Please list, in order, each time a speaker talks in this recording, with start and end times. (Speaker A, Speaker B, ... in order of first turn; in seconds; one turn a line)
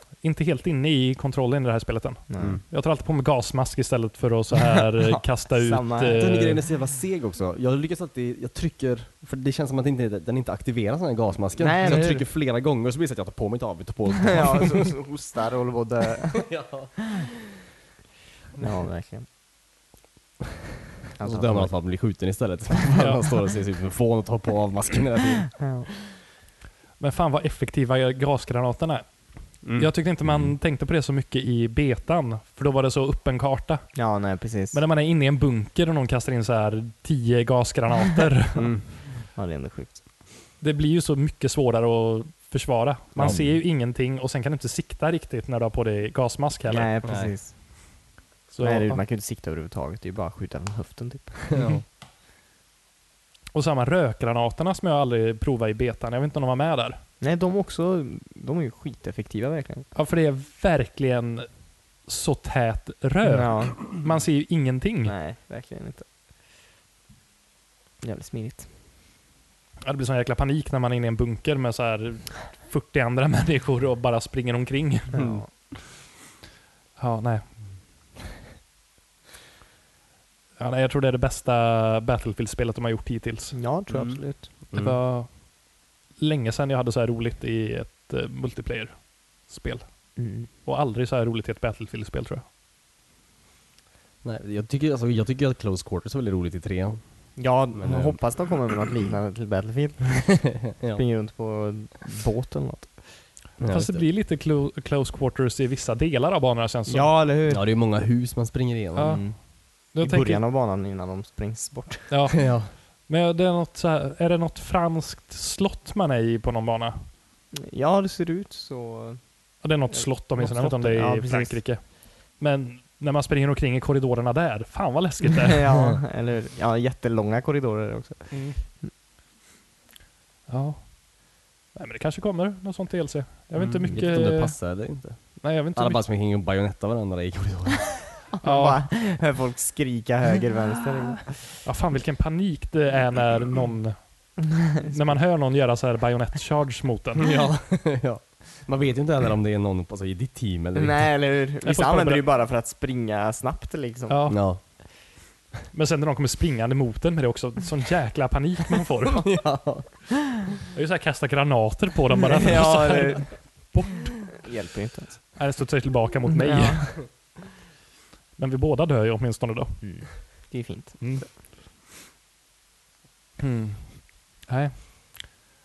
Speaker A: 0.2-6.6
Speaker B: 2.3-2.6
Speaker B: 5.0-6.2
Speaker C: 6.1-14.9
Speaker B: 11.6-12.3
Speaker B: 14.2-17.2
Speaker C: 16.3-17.3
Speaker B: 18.6-19.3
Speaker B: 21.2-22.0
Speaker C: 21.2-25.7
Speaker A: 23.0-23.2
Speaker B: 25.6-25.9
Speaker A: 27.0-34.0
Speaker C: 29.6-30.6
Speaker B: 34.0-34.8
Speaker A: 34.7-38.7
Speaker C: 38.6-39.0
Speaker B: 39.2-40.0
Speaker A: 40.6-46.9
Speaker C: 43.2-43.6
Speaker B: 46.7-47.6
Speaker C: 47.0-47.4
Speaker A: 48.5-49.0
Speaker B: 48.6-51.6
Speaker A: 51.5-51.8
Speaker C: 51.6-51.8
Speaker A: 53.5-57.0
Speaker B: 57.2-59.9
Speaker A: 59.9-65.2
Speaker B: 63.2-63.9
Speaker B: 65.0-66.1
Speaker B: 68.0-68.7
Speaker A: 69.8-75.3
Speaker B: 75.1-75.5
Speaker A: 77.0-77.6
Speaker A: 80.6-83.6
Speaker B: 83.5-84.5
Speaker C: 83.9-85.0
Speaker A: 84.7-85.5
Speaker A: 86.2-92.5
Speaker B: 90.2-90.5
Speaker C: 94.2-98.5
Speaker B: 97.4-103.2
Speaker C: 100.7-101.0
Speaker C: 103.6-104.0
Speaker A: 103.7-107.2
Speaker B: 106.9-107.7
Speaker C: 107.5-109.2
Speaker A: 109.0-110.4
Speaker B: 109.0-112.4
Speaker A: 112.1-117.1
Speaker C: 112.4-112.7
Speaker B: 117.5-121.6
Speaker A: 119.6-125.7
Speaker B: 125.4-128.9
Speaker A: 128.3-128.6
Speaker A: 130.5-136.1
Speaker C: 133.6-138.2
Speaker B: 138.3-141.6
Speaker A: 138.4-138.9
Speaker A: 141.6-147.3
Speaker B: 144.5-145.1
Speaker C: 147.2-151.1
Speaker B: 150.8-154.5
Speaker A: 151.6-152.3
Speaker A: 154.1-154.8
Speaker C: 154.3-154.6
Speaker A: 155.7-159.5
Speaker C: 159.2-160.2
Speaker A: 160.7-164.5
Speaker B: 162.4-163.8
Speaker B: 164.4-165.5
Speaker A: 165.3-167.1
Speaker B: 166.4-167.0
Speaker A: 168.4-170.1
Speaker B: 169.8-171.3
Speaker A: 171.0-171.3
Speaker A: 173.4-175.4